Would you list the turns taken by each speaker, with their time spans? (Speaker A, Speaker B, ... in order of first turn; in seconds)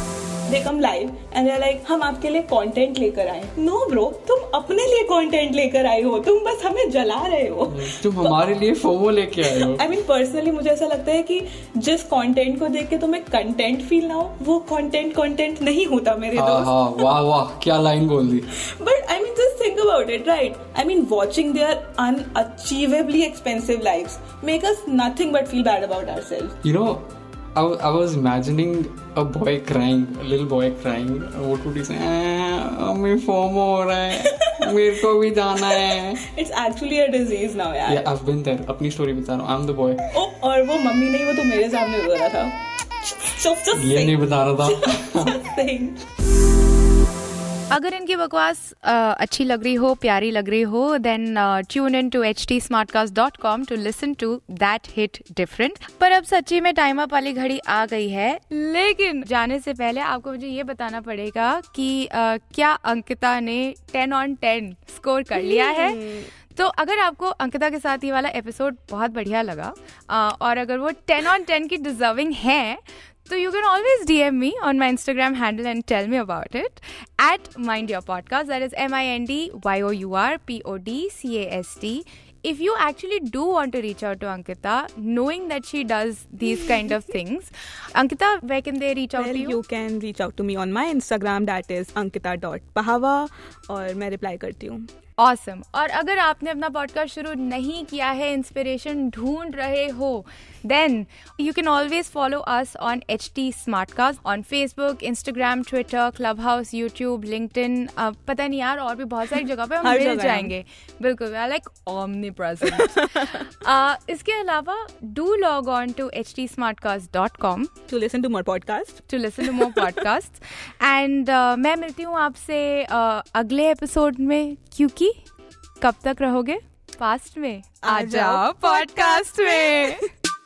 Speaker A: 0.5-8.3, 9.4-17.1, 18.6-26.6, 35.6-38.1, 40.1-46.0, 65.3-66.3, 89.2-94.9, 109.8-110.5, 112.7-113.1, 117.9-119.9, 127.8-130.0
Speaker B: 7.7-9.8, 16.3-18.5, 26.6-36.2, 37.9-40.0, 43.7-45.3
Speaker C: 47.7-89.6, 95.2-117.7, 119.1-125.1, 125.8-130.1